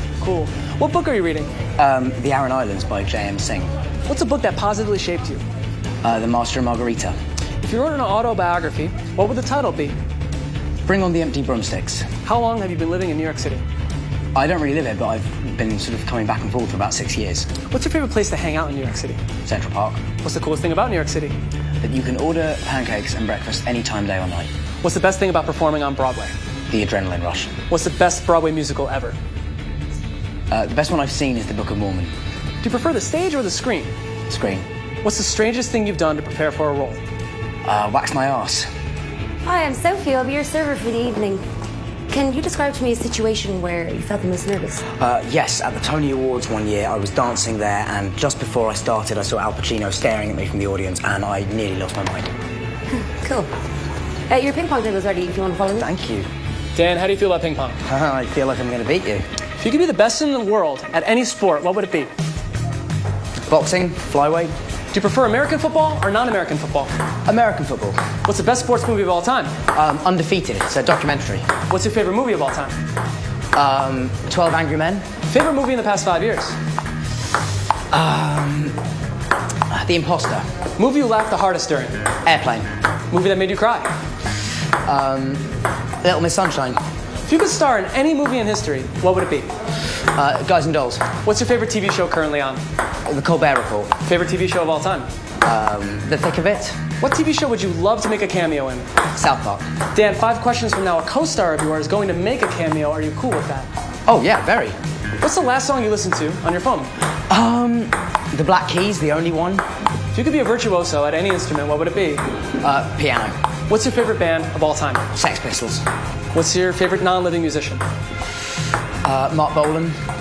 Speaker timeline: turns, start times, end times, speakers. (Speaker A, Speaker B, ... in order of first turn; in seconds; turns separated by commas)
Speaker A: 0.2-1.5, Speaker B: 1.8-3.7, Speaker A: 4.1-5.4, Speaker B: 6.0-7.2, Speaker A: 7.6-9.9, Speaker B: 10.9-12.1, Speaker A: 12.2-13.6, Speaker B: 14.3-17.5, Speaker A: 17.7-19.2, Speaker B: 19.4-20.0, Speaker A: 20.2-21.4, Speaker B: 21.8-24.5, Speaker A: 24.8-26.3, Speaker B: 26.7-27.5, Speaker A: 27.7-29.2, Speaker B: 30.5-32.1, Speaker A: 32.6-33.9, Speaker B: 34.3-34.6, Speaker A: 35.0-37.0, Speaker B: 37.6-38.7, Speaker C: 39.4-41.4, Speaker C: 42.1-44.8, Speaker B: 45.0-52.3, Speaker C: 53.2-53.5, Speaker C: 54.3-55.9, Speaker B: 55.7-56.3, Speaker A: 56.8-57.8, Speaker B: 57.9-59.2, Speaker A: 59.6-62.1, Speaker B: 63.5-64.5, Speaker A: 64.9-66.9, Speaker B: 67.2-68.0, Speaker A: 68.2-69.5, Speaker B: 69.7-71.5, Speaker A: 71.7-72.8, Speaker B: 73.5-75.0, Speaker A: 75.3-76.6, Speaker B: 77.9-78.8, Speaker B: 79.7-80.5, Speaker A: 80.8-82.0, Speaker B: 82.2-82.7, Speaker A: 83.1-83.9, Speaker B: 84.8-85.5, Speaker B: 86.0-86.8, Speaker A: 87.3-89.5, Speaker B: 90.1-91.1, Speaker A: 91.2-92.6, Speaker B: 93.0-93.9, Speaker A: 94.0-95.1, Speaker B: 95.4-96.8, Speaker A: 97.0-98.9, Speaker B: 99.2-99.6, Speaker A: 99.9-103.7, Speaker B: 104.1-104.8, Speaker A: 105.2-106.9, Speaker B: 107.3-109.7, Speaker A: 110.1-112.2, Speaker B: 112.6-113.4, Speaker A: 113.7-115.0, Speaker B: 115.1-115.9, Speaker A: 116.3-117.8, Speaker B: 119.0-120.0